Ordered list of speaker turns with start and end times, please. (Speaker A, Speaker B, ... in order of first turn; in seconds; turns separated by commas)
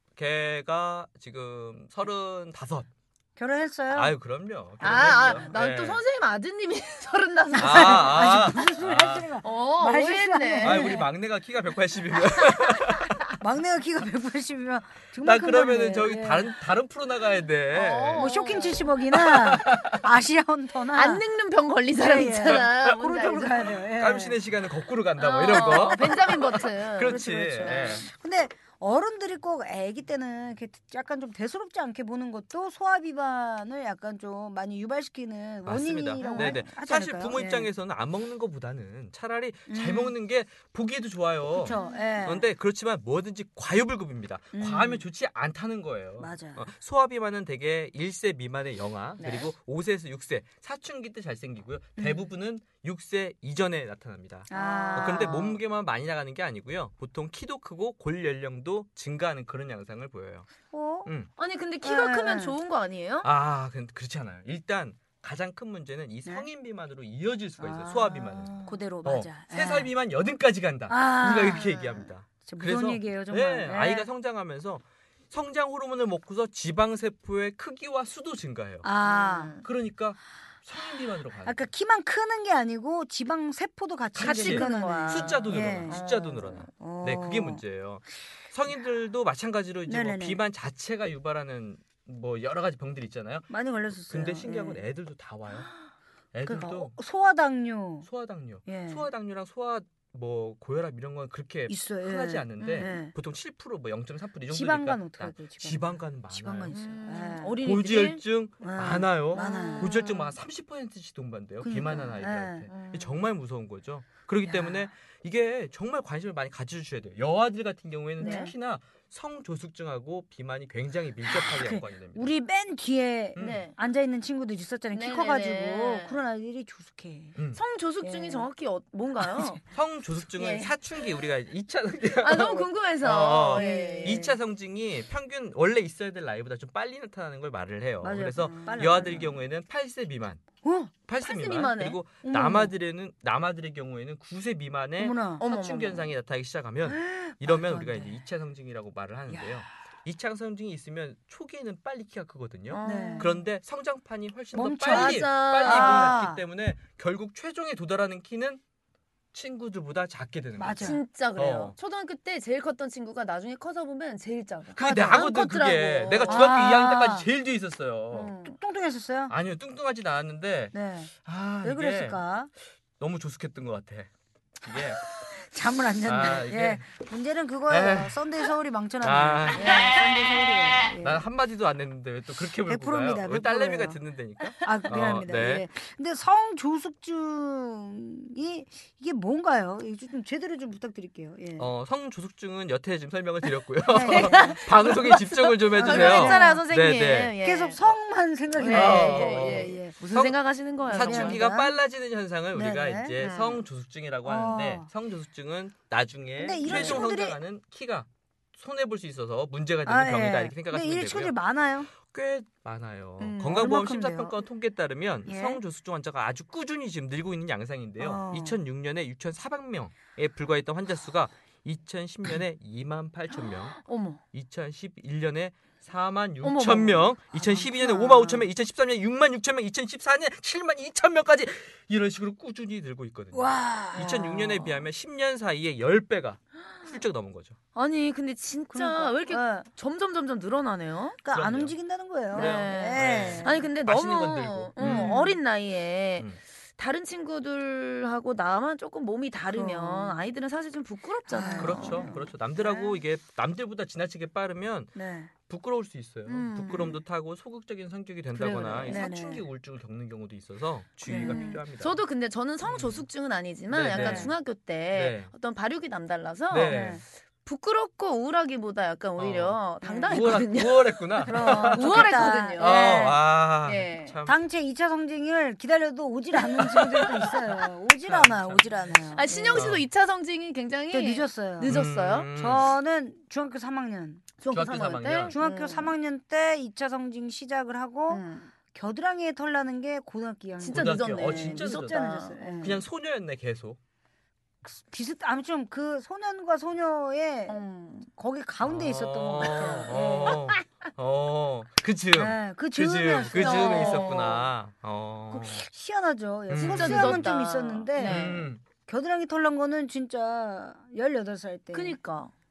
Speaker A: 0.2-2.9, Speaker B: 3.4-4.1, Speaker A: 3.9-6.0, Speaker C: 4.8-8.3, Speaker B: 7.6-11.0, Speaker A: 7.6-9.3, Speaker C: 9.4-11.1, Speaker A: 10.6-13.2, Speaker B: 13.4-16.5, Speaker A: 15.2-18.3, Speaker C: 17.7-18.9, Speaker B: 18.2-21.2, Speaker A: 19.1-20.0, Speaker C: 20.9-23.7, Speaker B: 22.0-24.4, Speaker A: 22.4-23.0, Speaker A: 23.9-28.1, Speaker C: 25.2-28.0, Speaker B: 25.5-26.4, Speaker B: 27.0-37.7, Speaker A: 35.7-60.5, Speaker C: 36.2-36.6, Speaker B: 39.7-40.1, Speaker B: 41.5-42.5, Speaker C: 41.7-42.1, Speaker B: 44.5-45.0, Speaker B: 46.2-46.6, Speaker C: 49.2-49.5, Speaker B: 52.0-52.3, Speaker B: 54.5-55.5, Speaker C: 54.5-55.5, Speaker B: 60.7-61.1, Speaker A: 61.0-61.3, Speaker C: 61.4-63.3, Speaker B: 61.8-62.5, Speaker A: 63.2-78.9, Speaker B: 67.6-69.9, Speaker C: 68.4-68.8, Speaker B: 70.9-71.8, Speaker C: 71.6-72.1, Speaker B: 72.5-74.1, Speaker B: 78.8-79.6, Speaker C: 79.0-79.7, Speaker A: 79.6-81.7, Speaker B: 81.5-86.0, Speaker A: 84.2-93.5, Speaker C: 84.2-86.7, Speaker B: 86.8-87.6, Speaker B: 89.9-90.4, Speaker B: 93.5-94.8, Speaker A: 94.1-95.7, Speaker A: 96.3-97.0, Speaker B: 96.4-98.1, Speaker A: 98.0-106.8, Speaker B: 98.7-99.1, Speaker B: 101.7-103.1, Speaker C: 102.6-103.0, Speaker B: 104.5-107.5, Speaker C: 106.7-108.2, Speaker A: 107.6-122.3, Speaker B: 108.6-110.0, Speaker C: 109.3-110.3, Speaker B: 111.6-112.7, Speaker C: 112.7-113.2, Speaker B: 114.4-114.9, Speaker B: 118.2-118.5, Speaker C: 118.2-118.5, Speaker B: 121.3-127.4, Speaker A: 123.4-123.7, Speaker C: 123.4-123.8, Speaker C: 124.9-126.2, Speaker A: 127.4-127.6, Speaker C: 127.5-129.6, Speaker B: 128.0-128.5, Speaker A: 129.7-140.4, Speaker C: 130.4-130.7, Speaker C: 132.2-134.3, Speaker B: 133.5-134.3, Speaker B: 138.0-139.4, Speaker B: 140.6-140.9, Speaker A: 141.1-158.6, Speaker C: 141.2-142.0, Speaker B: 142.2-142.8, Speaker B: 145.0-145.4, Speaker C: 145.4-146.1, Speaker B: 146.9-148.2, Speaker B: 149.3-149.6, Speaker C: 152.7-153.3, Speaker B: 152.8-153.3, Speaker B: 154.5-156.4, Speaker C: 154.9-156.2, Speaker A: 159.3-161.8, Speaker B: 160.6-161.0, Speaker C: 160.8-166.5, Speaker A: 164.8-168.3, Speaker B: 164.8-165.2, Speaker B: 166.3-167.3, Speaker C: 168.1-168.6, Speaker B: 168.5-169.3, Speaker A: 169.3-172.2, Speaker B: 170.7-171.1, Speaker B: 171.6-172.5, Speaker A: 173.0-174.1, Speaker A: 174.6-175.0, Speaker B: 175.3-181.2, Speaker A: 176.0-176.8, Speaker A: 177.7-178.3, Speaker A: 179.0-179.8, Speaker C: 179.6-180.0, Speaker A: 181.0-185.7, Speaker B: 182.7-184.0, Speaker B: 184.6-191.7, Speaker A: 191.6-197.4, Speaker B: 193.9-194.6, Speaker C: 194.1-197.8, Speaker B: 195.8-196.7, Speaker B: 197.4-200.0, Speaker C: 198.6-201.4, Speaker A: 198.6-200.3, Speaker A: 200.9-211.3, Speaker B: 200.9-201.8, Speaker B: 202.5-203.3, Speaker C: 203.2-203.6, Speaker B: 204.3-204.9, Speaker B: 206.4-207.4, Speaker C: 206.7-207.0, Speaker B: 209.8-211.9, Speaker A: 211.9-223.8, Speaker B: 213.2-214.4, Speaker B: 215.3-215.6, Speaker B: 218.0-218.6, Speaker C: 223.5-224.2, Speaker A: 224.3-237.6, Speaker C: 226.4-227.1, Speaker B: 227.3-228.5, Speaker B: 233.3-234.7, Speaker C: 237.8-241.2, Speaker B: 238.7-239.7, Speaker B: 241.2-243.7, Speaker A: 241.3-241.7, Speaker A: 242.3-245.2, Speaker C: 242.3-252.2, Speaker B: 244.8-245.3, Speaker B: 249.5-250.2, Speaker B: 251.3-252.9, Speaker A: 251.6-254.9, Speaker B: 255.0-255.3, Speaker A: 255.5-262.0, Speaker C: 256.3-257.0, Speaker C: 258.4-259.1, Speaker B: 258.9-259.4, Speaker B: 261.1-261.6, Speaker C: 261.1-273.1, Speaker A: 262.7-263.1, Speaker A: 263.7-264.3, Speaker B: 263.9-264.3, Speaker A: 264.9-265.3, Speaker A: 266.5-267.0, Speaker B: 266.7-267.0, Speaker A: 269.2-274.4, Speaker B: 269.8-270.4, Speaker B: 271.2-273.2, Speaker C: 273.6-274.2, Speaker B: 274.3-279.7, Speaker A: 276.6-277.4, Speaker A: 278.0-278.7, Speaker C: 279.1-282.3, Speaker A: 279.5-279.9, Speaker B: 280.9-281.8, Speaker A: 281.7-282.7, Speaker B: 282.3-284.3, Speaker C: 284.4-285.9, Speaker A: 284.5-285.4, Speaker B: 285.3-292.8, Speaker C: 288.1-288.5, Speaker C: 290.6-292.8, Speaker A: 290.7-292.0, Speaker A: 292.6-293.8, Speaker B: 294.6-300.4, Speaker C: 297.5-298.1, Speaker A: 298.6-305.6, Speaker C: 299.4-300.6, Speaker B: 302.1-304.2, Speaker C: 303.3-304.5, Speaker B: 305.3-312.0, Speaker A: 306.5-307.3, Speaker C: 306.6-308.5, Speaker A: 308.0-308.6, Speaker C: 311.7-312.3